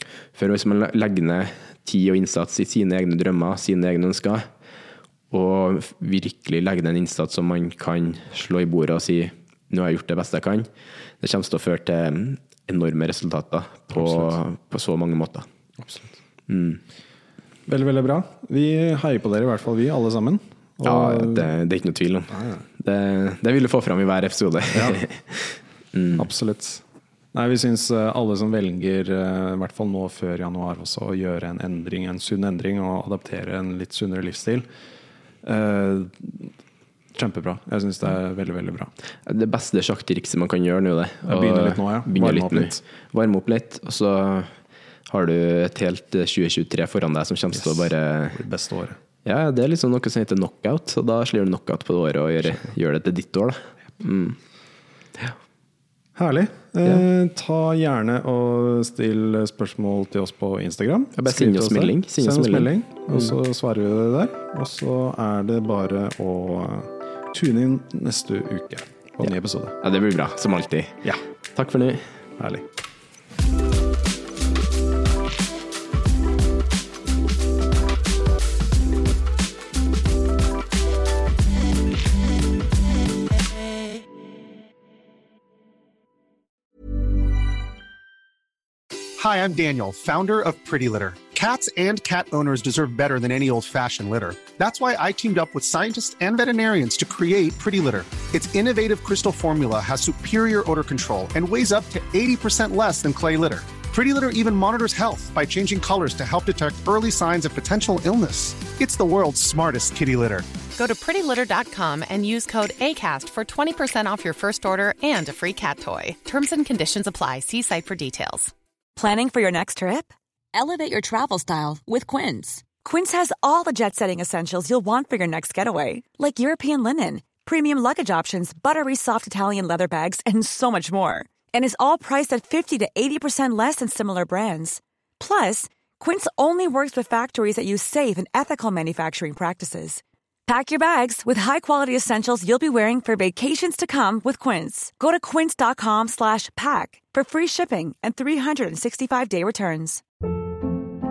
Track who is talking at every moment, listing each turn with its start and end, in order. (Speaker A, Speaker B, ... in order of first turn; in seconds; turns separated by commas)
Speaker A: 0.3-4.5, Speaker A: 5.3-10.7, Speaker A: 11.2-15.5, Speaker B: 13.9-14.4, Speaker B: 15.8-16.1, Speaker A: 16.5-16.8, Speaker B: 17.7-21.5, Speaker A: 20.8-26.3, Speaker B: 22.3-22.6, Speaker B: 24.7-25.0, Speaker B: 26.2-26.8, Speaker B: 27.3-34.7, Speaker B: 35.4-36.5, Speaker B: 37.1-38.9, Speaker A: 39.3-44.5, Speaker B: 41.3-42.8, Speaker A: 45.1-48.4, Speaker B: 47.5-49.0, Speaker A: 49.2-54.4, Speaker B: 56.2-69.8, Speaker A: 61.2-63.3, Speaker A: 69.8-72.1, Speaker B: 72.4-72.6, Speaker C: 89.2-110.5, Speaker D: 110.8-118.5, Speaker E: 119.0-120.1, Speaker F: 120.5-122.6, Speaker E: 120.9-150.0